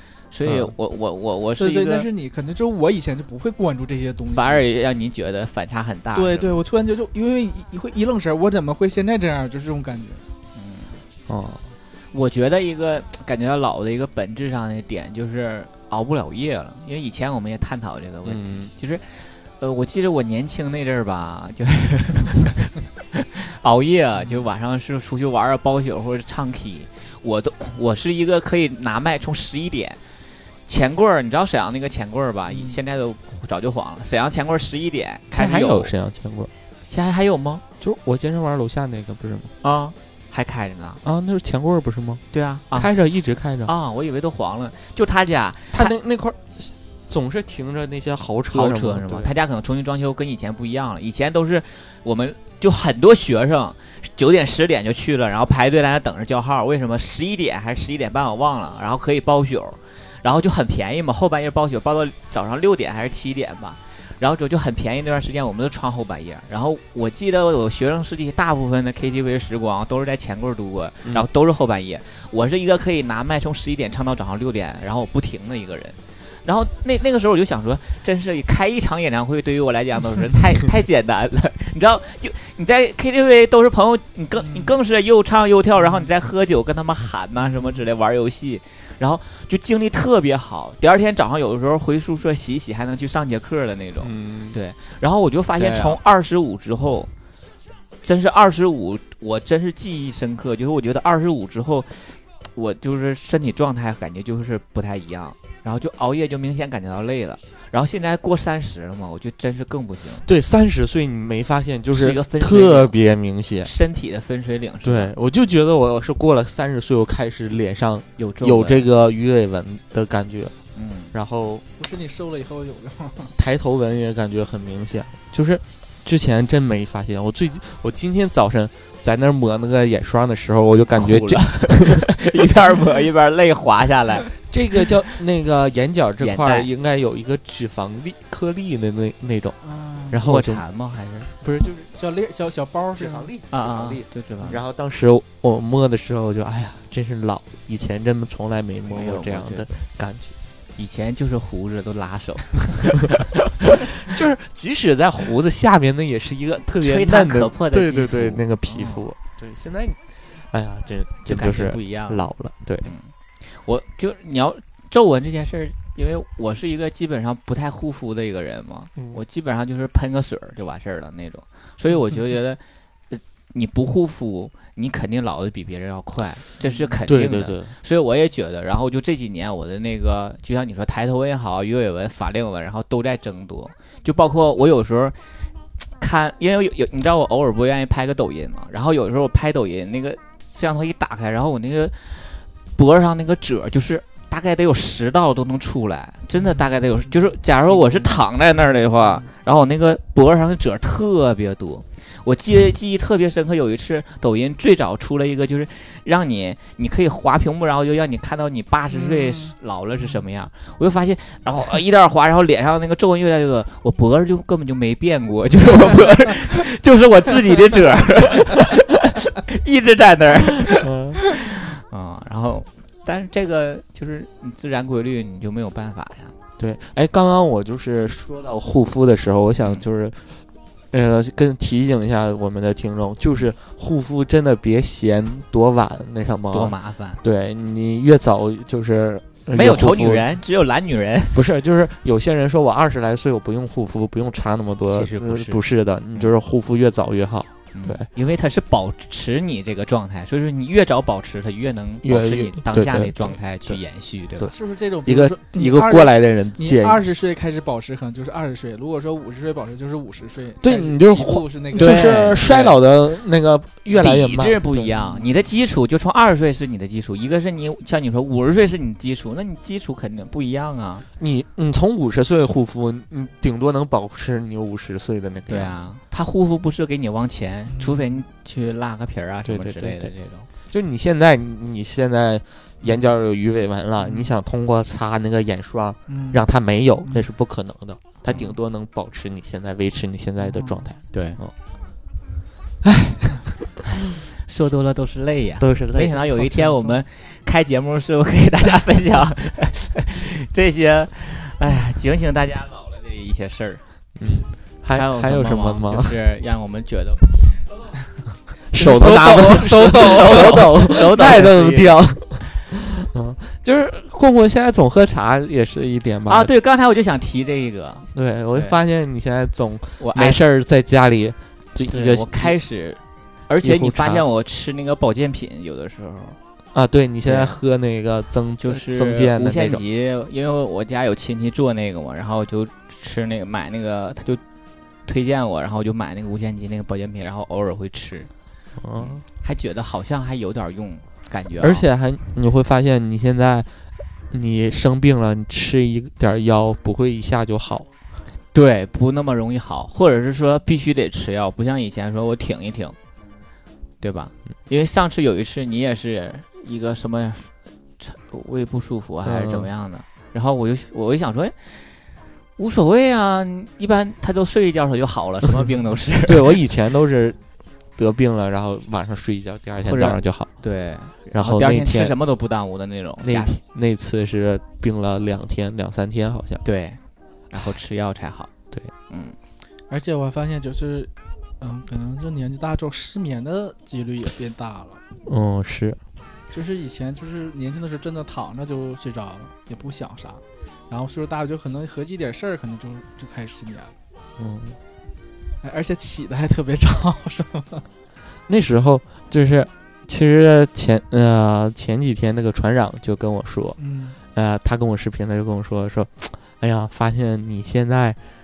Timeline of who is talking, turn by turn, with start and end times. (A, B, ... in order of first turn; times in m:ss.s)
0:00.3-0:02.1 A
0:00.4-0:00.7 B
0:01.6-0:04.6 C
0:04.3-0:06.5 A
0:06.1-0:10.2 C
0:10.5-0:11.0 A
0:11.3-0:11.6 B
0:12.1-0:30.0 A
0:18.2-0:18.7 B
0:30.6-0:35.9 A
0:35.3-0:36.5 B
0:36.9-0:37.6 A
0:37.8-0:39.5 B
0:39.6-0:41.0 A
0:41.0-0:43.7 B
0:42.3-0:42.9 A
0:43.6-0:45.9 A
0:45.7-0:49.3 B
0:48.5-1:37.1 A
1:25.8-1:26.1 C
1:34.0-1:34.6 B
1:35.5-1:36.0 B
1:38.0-1:50.2 A
1:50.2-1:53.7 B
1:51.9-1:53.0 A
1:53.6-1:55.1 A
1:54.8-2:00.6 B
1:58.2-1:58.8 A
2:00.7-2:01.1 A
2:01.1-2:01.6 B
2:01.8-2:03.3 C
2:03.4-2:12.1 B
2:10.9-2:14.3 A
2:14.5-2:19.6 B
2:16.2-2:16.7 A
2:19.6-2:20.1 C
2:20.1-2:20.6 B
2:20.2-2:21.3 A
2:21.4-2:21.8 B
2:21.6-2:23.3 C
2:22.9-2:30.4 B
2:23.5-2:24.6 A
2:28.9-2:29.8 A
2:30.8-2:33.1 A
2:34.0-2:42.9 B
2:36.8-2:39.1 A
2:41.2-2:42.3 A
2:42.8-3:05.2 A
2:57.0-2:57.7 B
3:06.0-3:46.3 A
3:16.5-3:18.2 C
3:28.9-3:29.5 C
3:40.6-3:41.2 B
3:46.6-4:00.2 B
3:49.6-3:49.8 A
3:56.5-3:57.2 A
3:59.5-4:01.4 A
4:01.3-4:08.1 B
4:04.9-4:06.3 A
4:07.7-4:14.5 A
4:12.0-4:13.8 B
4:14.5-4:22.3 C
4:15.0-4:17.0 B
4:20.6-4:24.9 B
4:21.7-4:22.8 A
4:23.9-4:31.0 A
4:24.9-4:25.3 C
4:31.2-4:35.8 B
4:35.5-4:40.5 A
4:37.8-4:38.0 C
4:39.4-4:40.1 B
4:40.6-4:51.5 B
4:44.0-4:44.3 C
4:46.1-4:46.4 C
4:48.3-4:48.5 A
4:50.5-4:50.9 C
4:51.1-4:51.4 A
4:52.8-4:53.5 B
4:54.4-5:03.8 A
4:55.6-4:56.9 B
5:04.2-5:06.2 B
5:04.9-5:07.6 A
5:08.7-5:16.5 B
5:08.8-5:10.5 C
5:08.8-5:12.0 A
5:16.3-5:18.8 A
5:18.1-5:22.6 B
5:20.0-5:20.4 A
5:21.9-5:26.4 A
5:23.6-5:24.2 B
5:26.7-5:29.8 B
5:27.2-5:27.5 A
5:28.6-5:34.4 A
5:35.0-5:38.3 A
5:38.8-5:39.2 B
5:38.9-5:41.8 A
5:41.6-5:47.9 B
5:48.5-5:53.0 A
5:54.0-6:01.9 A
5:59.2-5:59.7 B
6:02.6-6:06.6 A
6:06.2-6:07.4 B
6:07.9-6:10.5 B
6:09.8-6:13.6 A
6:11.3-6:12.2 B
6:13.2-6:16.6 B
6:16.6-6:17.0 A
6:17.5-6:18.5 A
6:19.1-6:19.4 A
6:19.9-6:25.0 C
6:25.2-6:26.0 B
6:26.5-6:33.9 C
6:34.4-6:34.8 B
6:35.6-6:37.9 C
6:38.5-6:43.8 B
6:43.8-6:44.2 C
6:44.3-6:48.2 B